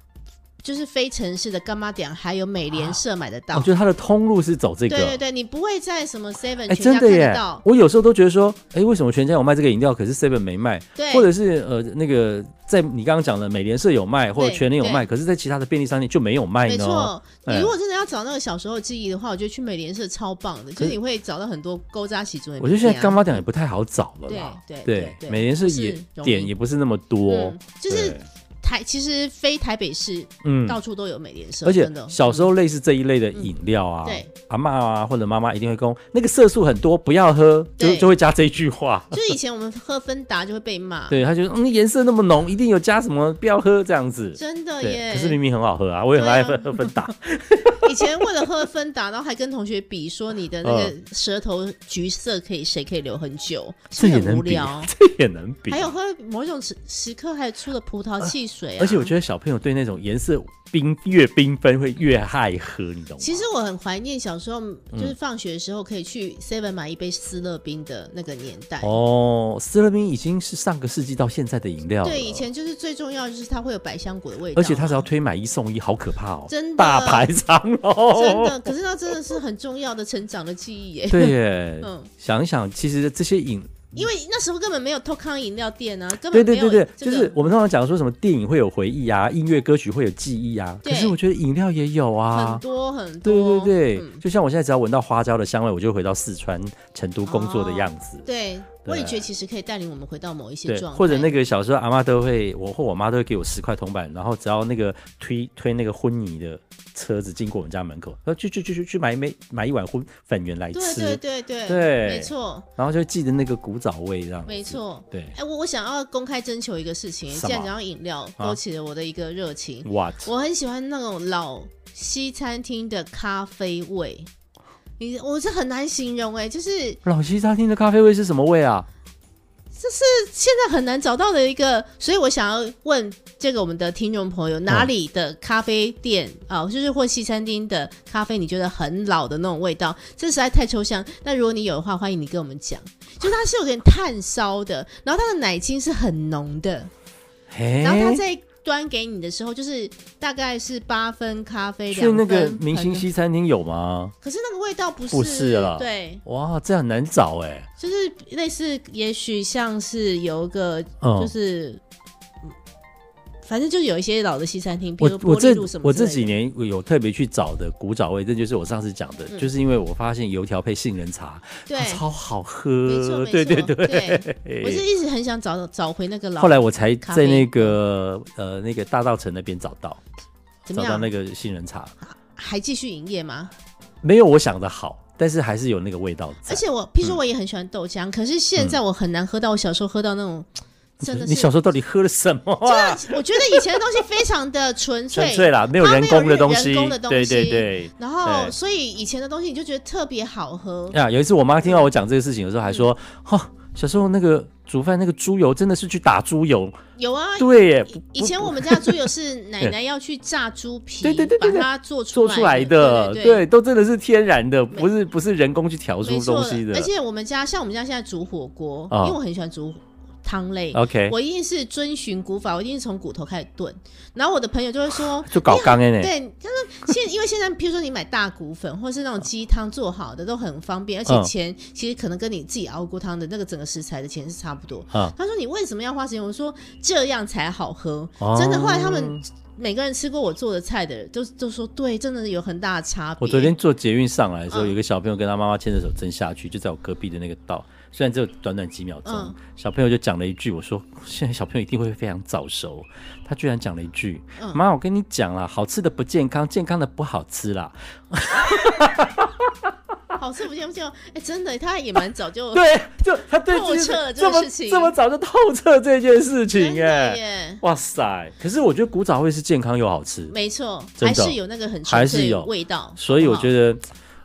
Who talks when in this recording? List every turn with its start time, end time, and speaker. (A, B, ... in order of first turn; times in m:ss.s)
0:00.6-0:03.7 A
0:03.5-0:05.2 B
0:04.9-0:07.6 A
0:06.7-0:17.7 B
0:11.0-0:11.3 A
0:14.4-0:15.0 A
0:16.6-0:23.4 A
0:22.6-0:28.2 B
0:24.3-0:26.5 A
0:27.3-0:32.5 A
0:30.4-0:30.8 B
0:31.6-0:39.2 B
0:37.8-0:38.1 A
0:39.1-0:41.2 A
0:41.1-0:48.3 B
0:44.4-0:45.4 A
0:46.1-0:47.0 A
0:47.8-0:54.9 A
0:50.6-0:50.9 B
0:54.0-0:55.9 B
0:55.7-0:59.1 A
0:58.2-1:03.4 B
1:03.2-1:09.0 A
1:08.8-1:12.5 B
1:12.0-1:15.1 A
1:14.6-1:18.7 B
1:16.5-1:17.3 A
1:18.1-1:22.1 A
1:21.1-1:24.1 B
1:23.9-1:27.3 A
1:26.3-1:32.6 B
1:30.8-1:31.2 A
1:32.3-1:34.2 A
1:33.2-1:38.3 B
1:37.2-1:41.4 A
1:38.8-1:39.3 B
1:40.7-1:55.4 B
1:50.7-1:52.7 A
1:54.5-2:04.3 A
1:57.3-1:57.7 B
1:59.8-2:00.3 B
2:05.0-2:07.0 A
2:07.0-2:08.9 B
2:09.7-2:26.9 A
2:27.5-2:28.2 B
2:27.8-2:33.1 A
2:31.9-2:34.1 B
2:34.2-2:36.2 A
2:35.1-2:37.7 B
2:37.8-2:41.8 A
2:41.0-2:41.3 B
2:43.4-2:46.4 A
2:45.0-2:54.8 B
2:51.7-2:52.1 A
2:52.8-2:57.8 A
2:56.4-3:00.0 B
3:00.7-3:01.1 A
3:00.7-3:01.9 B
3:02.0-3:03.5 A
3:04.0-3:07.2 B
3:06.5-3:11.5 A
3:11.0-3:14.0 B
3:12.6-3:21.0 A
3:15.1-3:18.6 B
3:20.9-3:26.8 B
3:21.6-3:21.9 A
3:27.0-3:33.5 A
3:27.4-3:29.1 B
3:31.0-3:36.9 B
3:36.0-4:03.6 A
3:38.9-3:39.2 B
3:40.7-3:41.2 B
3:45.3-3:46.1 B
3:51.1-3:51.3 B
3:58.2-3:59.2 B
4:03.2-4:19.5 B
4:04.5-4:04.8 A
4:09.0-4:09.4 A
4:14.4-4:14.6 A
4:20.2-4:25.0 A
4:22.5-4:30.4 B
4:26.5-4:27.6 A
4:30.3-4:33.5 A
4:31.0-4:33.8 B